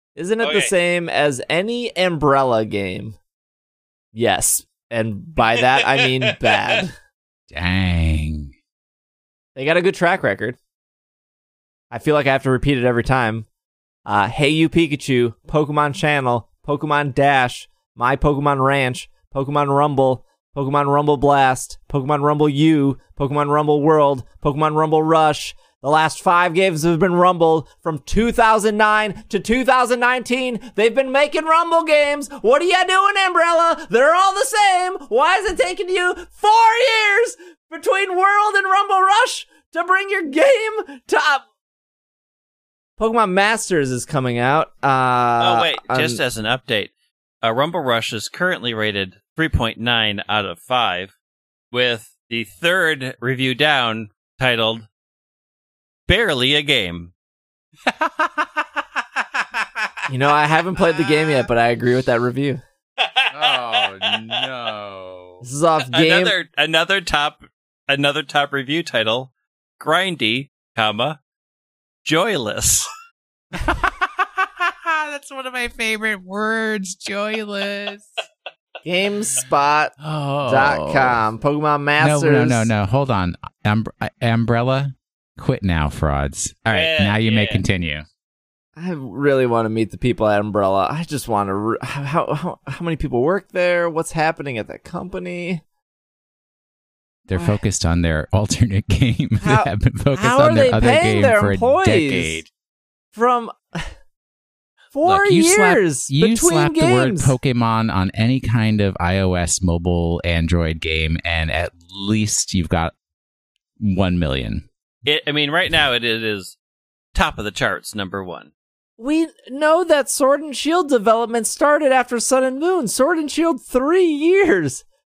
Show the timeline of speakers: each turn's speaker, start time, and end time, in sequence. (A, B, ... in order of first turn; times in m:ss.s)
0:00.2-0:03.2 A
0:00.4-0:00.7 B
0:04.1-0:06.9 A
0:07.5-0:08.5 C
0:09.6-0:10.6 A
0:11.9-0:13.4 A
0:14.0-0:41.4 A
0:43.0-0:46.2 A
0:45.4-0:46.9 B
0:47.4-0:51.1 B
0:51.7-0:54.9 B
0:56.1-0:57.1 B
0:57.8-0:59.6 C
1:00.1-1:02.6 A
1:03.0-1:04.4 B
1:03.3-1:05.4 C
1:05.4-1:06.3 A
1:05.9-1:11.2 B
1:12.0-1:12.9 B
1:13.5-1:18.2 C
1:18.8-1:19.9 A
1:20.0-1:21.2 C
1:20.4-1:22.7 A
1:22.0-1:28.0 C
1:26.7-1:27.6 B
1:28.8-1:35.6 A
1:37.3-1:42.5 C
1:39.4-1:42.4 A
1:43.1-1:43.9 A
1:44.9-1:47.3 A
1:45.0-1:52.9 C
1:53.8-1:54.7 C
1:55.0-1:56.6 B
1:57.1-1:58.5 B
1:59.0-2:04.8 A